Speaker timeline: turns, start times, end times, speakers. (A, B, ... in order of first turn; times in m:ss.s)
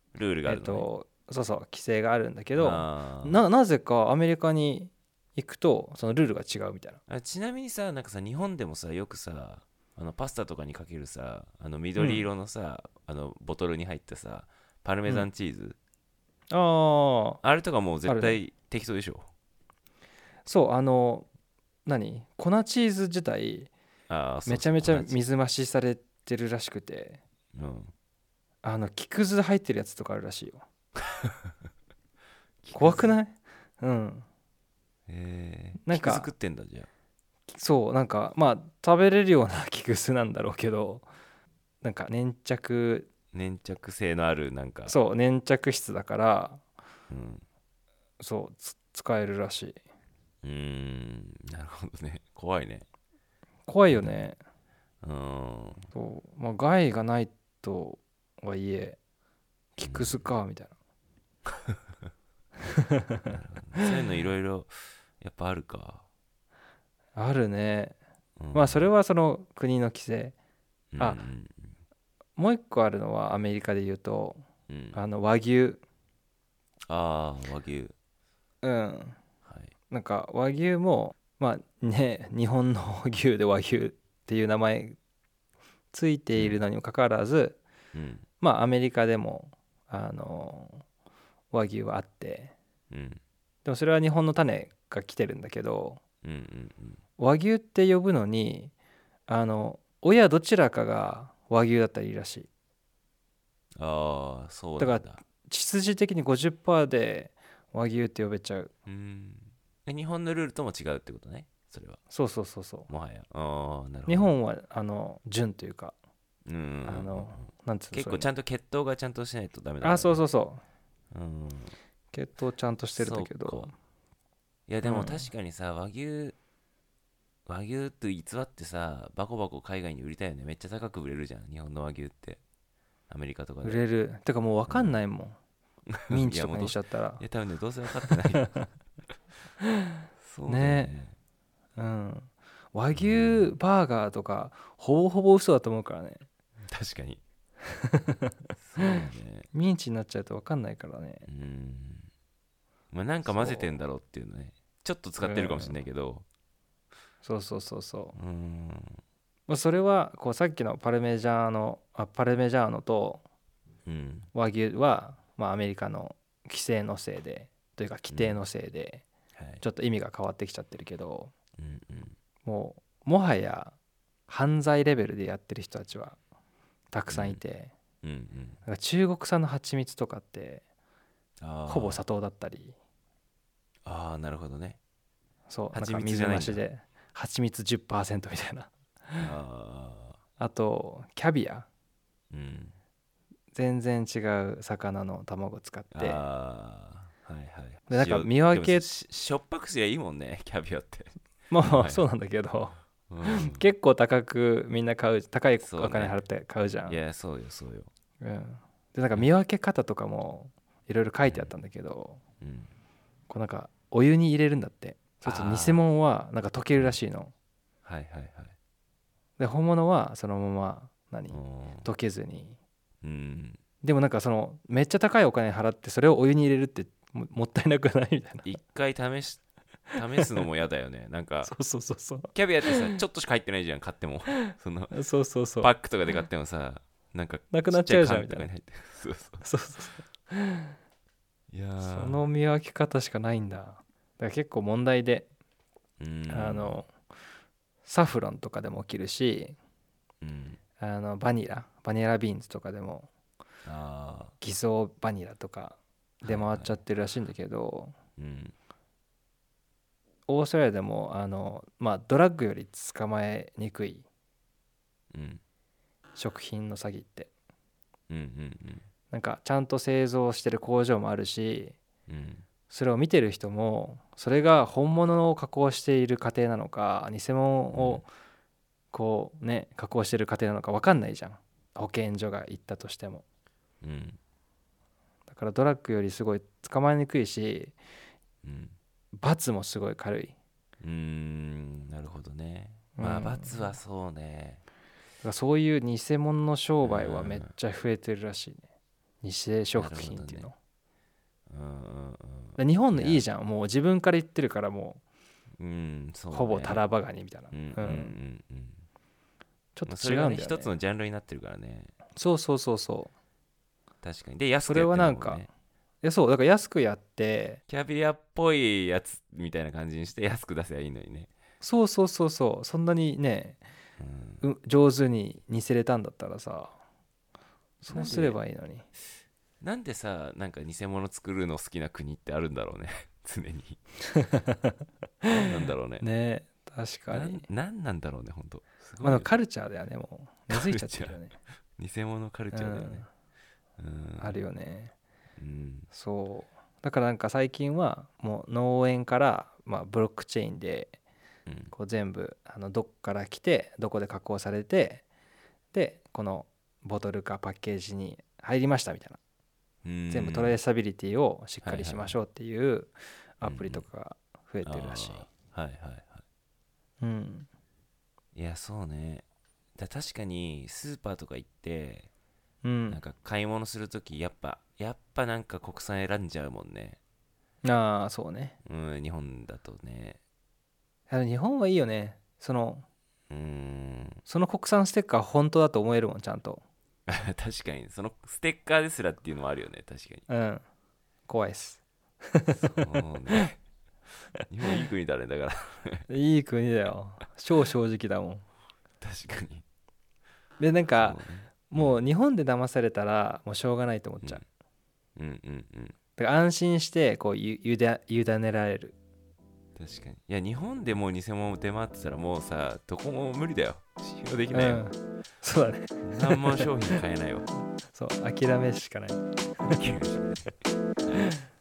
0:00.1-0:00.9 A
0:00.4-0:07.0 B
0:02.5-0:03.4 A
0:07.1-0:15.8 A
0:12.0-0:12.3 B
0:16.5-0:17.4 B
0:17.4-0:19.3 A
0:18.0-0:18.4 B
0:20.4-0:21.3 B
0:21.8-0:23.7 B
0:24.1-0:25.2 A
0:24.4-0:27.2 B
0:27.5-0:27.9 A
0:28.6-0:30.6 B
0:31.2-0:31.5 A
0:32.6-0:33.1 A
0:32.7-0:34.2 B
0:35.1-0:36.9 A
0:35.8-0:36.3 B
0:37.5-0:41.1 B
0:41.8-0:43.1 B
0:43.3-0:45.0 A
0:44.8-0:46.6 B
0:47.1-0:47.4 A
0:48.2-0:49.8 B
0:50.4-0:52.8 A
0:53.7-0:54.4 B
0:53.9-0:54.2 A
0:55.0-0:55.9 A
0:55.9-0:59.0 B
0:59.8-1:00.7 B
0:59.8-1:00.2 A
1:03.3-1:06.0 A
1:07.2-1:08.0 B
1:08.4-1:08.9 A
1:08.5-1:10.3 B
1:10.9-1:11.7 A
1:12.4-1:15.8 B
1:14.7-1:15.0 A
1:16.9-1:17.9 A
1:18.6-1:19.2 B
1:19.4-1:19.7 A
1:19.9-1:25.0 B
1:25.9-1:27.6 B
1:26.3-1:26.6 A
1:27.9-1:28.2 A
1:28.4-1:30.8 B
1:31.5-1:32.5 B
1:32.9-1:33.2 A
1:33.6-1:36.0 B
1:36.2-1:37.0 A
1:37.2-1:38.7 B
1:39.3-1:42.5 B
1:43.8-1:45.2 A
1:44.8-1:48.7 B
1:48.8-1:52.0 A
1:52.1-1:52.9 B
1:52.9-1:54.3 A
1:54.0-1:56.0 B
1:56.4-2:00.2 A
1:56.8-1:58.3 B
1:59.8-2:00.6 B
2:01.1-2:01.8 A
2:02.1-2:03.7 B
2:03.0-2:03.7 A
2:04.7-2:06.4 A
2:04.8-2:05.3 B
2:07.4-2:12.4 A
2:13.1-2:13.8 A
2:13.6-2:15.4 B
2:14.7-2:15.0 A
2:15.9-2:18.6 A
2:16.1-2:17.2 B
2:18.1-2:18.6 B
2:20.2-2:21.1 A
2:20.5-2:20.9 B
2:21.8-2:26.2 B
2:22.9-2:23.6 A
2:26.7-2:27.2 A
2:27.8-2:28.9 B
2:28.6-2:29.5 A
2:29.5-2:31.2 B
2:31.2-2:32.1 A
2:32.9-2:36.2 A
2:33.2-2:33.8 B
2:35.2-2:35.8 B
2:37.2-2:38.2 B
2:38.1-2:39.0 A
2:39.5-2:43.2 B
2:43.8-2:44.3 A
2:44.3-2:49.0 B
2:48.1-2:48.4 A
2:49.4-2:49.6 A
2:49.6-2:51.3 B
2:51.6-2:52.2 A
2:52.4-2:53.8 B
2:54.3-2:56.2 B
2:56.9-2:57.7 B
2:57.1-2:57.4 A
2:58.0-2:58.6 A
2:58.6-3:00.6 B
3:01.4-3:02.0 A
3:01.6-3:02.7 B
3:03.8-3:04.8 A
3:05.5-3:09.3 B
3:05.7-3:06.6 A
3:09.2-3:10.2 A
3:10.4-3:11.7 B
3:12.3-3:12.8 A
3:13.5-3:16.2 B
3:15.9-3:21.1 A
3:17.9-3:18.9 B
3:21.5-3:27.0 B
3:21.6-3:22.0 A
3:23.1-3:23.6 A
3:25.6-3:26.2 A
3:26.8-3:27.9 A
3:28.2-3:32.2 B
3:32.4-3:32.7 A
3:33.3-3:37.3 B
3:35.2-3:35.8 A
3:37.8-3:38.5 A
3:39.4-3:42.6 B
3:41.3-3:41.9 A
3:43.0-3:43.6 A
3:43.8-3:48.5 B
3:48.4-3:49.4 A
3:49.9-3:51.6 A
3:51.4-3:53.0 B
3:52.3-3:54.9 A
3:54.9-3:55.7 B
3:55.6-3:59.4 A
3:57.5-3:58.5 B
3:59.4-4:00.6 B
4:01.5-4:02.2 A
4:01.8-4:05.3 B
4:06.0-4:06.8 A
4:06.3-4:06.9 B
4:07.8-4:09.6 B
4:10.2-4:10.6 A
4:10.8-4:13.1 B
4:13.6-4:14.3 A
4:14.4-4:17.9 B
4:16.2-4:16.8 A
4:18.2-4:18.5 A
4:20.3-4:24.0 B
4:25.1-4:25.4 A
4:26.1-4:27.3 B
4:28.1-4:28.8 A
4:29.1-4:31.8 B
4:32.1-4:32.4 A
4:32.7-4:38.1 B
4:37.7-4:38.0 A
4:38.9-4:43.2 B
4:43.8-4:44.2 A
4:45.3-4:47.8 B
4:48.4-4:48.8 A
4:49.2-4:50.3 B
4:50.8-4:54.6 A
4:53.0-4:53.8 B
4:55.2-4:58.7 B
4:56.8-4:57.5 A
4:59.2-5:00.5 B
4:59.7-5:00.5 A
5:01.5-5:03.2 A
5:02.6-5:05.0 B
5:05.6-5:06.8 A
5:06.3-5:08.2 B
5:07.5-5:08.8 A
5:09.8-5:10.7 B
5:09.8-5:11.9 A
5:12.1-5:13.1 B
5:14.0-5:15.5 A
5:14.6-5:15.5 B
5:16.0-5:17.6 B
5:17.7-5:21.3 A
5:21.6-5:23.6 B
5:24.0-5:24.4 A
5:24.4-5:26.8 B
5:27.8-5:28.9 B
5:27.9-5:28.4 A
5:29.6-5:33.8 A
5:34.2-5:34.6 B
5:35.3-5:36.1 A
5:36.0-5:37.5 B
5:37.1-5:39.3 A
5:39.0-5:41.4 B
5:40.5-5:41.2 A
5:41.8-5:43.0 A
5:42.5-5:43.1 B
5:43.8-5:44.4 A
5:44.2-5:44.9 B
5:45.4-5:45.9 A
5:45.9-5:51.0 B
5:51.5-5:51.7 A
5:51.7-5:55.0 B
5:55.7-5:59.2 B
5:59.8-6:00.6 A
6:00.1-6:05.3 B
6:01.6-6:02.2 A
6:03.4-6:03.8 A
6:04.6-6:06.2 A
6:07.0-6:07.5 B
6:08.4-6:09.2 A
6:09.8-6:12.1 A
6:12.6-6:13.0 B
6:12.9-6:17.0 A
6:17.6-6:18.6 B
6:18.6-6:20.2 A
6:21.1-6:22.8 B
6:23.3-6:24.2 A
6:24.2-6:26.6 B
6:27.1-6:30.2 A
6:30.3-6:30.6 B
6:31.3-6:32.6 B
6:32.6-6:33.6 A
6:34.5-6:36.1 A
6:36.1-6:38.4 B
6:39.0-6:39.6 A
6:40.6-6:44.4 B
6:41.0-6:42.0 A
6:45.2-6:45.9 A
6:46.2-6:48.9 B
6:49.8-6:54.8 A
6:54.5-6:56.9 B
6:56.0-6:57.5 A
6:57.9-6:59.9 B
6:59.7-7:00.5 A